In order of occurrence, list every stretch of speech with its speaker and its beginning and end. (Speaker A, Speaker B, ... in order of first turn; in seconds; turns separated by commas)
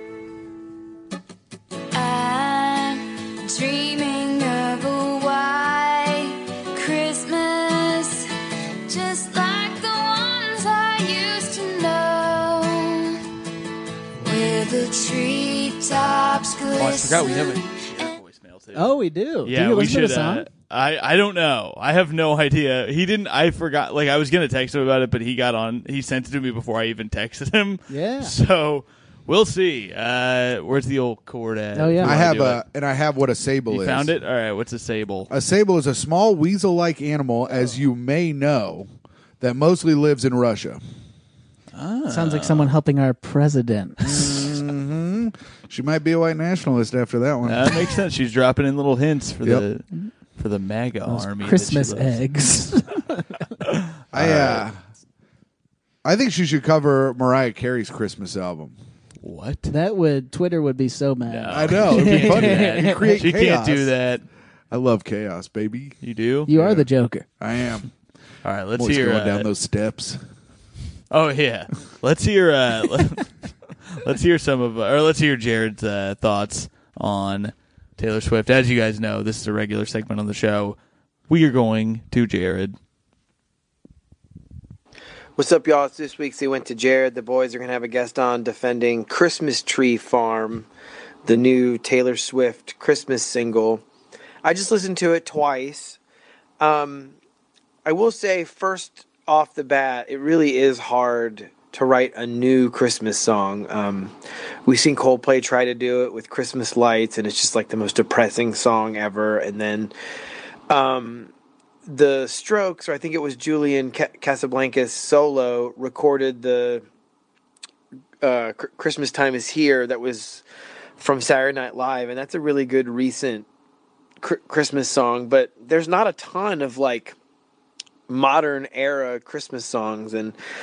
Speaker A: 1.9-8.3, Speaker A: 8.9-13.2, Speaker A: 14.2-18.2, Speaker B: 16.8-32.6, Speaker C: 18.8-20.5, Speaker C: 27.9-28.4, Speaker C: 31.8-32.2, Speaker D: 32.0-34.1, Speaker B: 33.7-35.3, Speaker D: 35.3-38.9, Speaker D: 39.4-40.8, Speaker B: 41.7-42.7, Speaker C: 42.1-44.2, Speaker D: 44.0-47.9, Speaker B: 47.5-52.2, Speaker C: 51.1-53.3, Speaker B: 54.1-54.7, Speaker D: 54.1-54.8, Speaker D: 56.0-58.8, Speaker B: 59.2-59.7, Speaker C: 59.7-63.2, Speaker B: 61.3-64.2, Speaker D: 61.5-63.9, Speaker D: 64.7-66.0, Speaker B: 66.0-66.5, Speaker C: 66.5-67.3, Speaker D: 66.5-66.9, Speaker D: 67.4-67.9, Speaker B: 68.5-69.5, Speaker D: 68.8-70.2, Speaker B: 71.1-73.3, Speaker B: 74.0-80.8, Speaker B: 81.3-82.8, Speaker E: 85.4-90.7, Speaker E: 91.2-93.8, Speaker E: 94.4-96.0, Speaker E: 96.6-97.2, Speaker E: 97.8-104.2, Speaker E: 104.7-109.9, Speaker E: 110.7-111.3, Speaker E: 111.9-116.8, Speaker E: 118.2-120.4, Speaker E: 121.0-123.5, Speaker E: 124.2-127.2, Speaker E: 128.1-130.4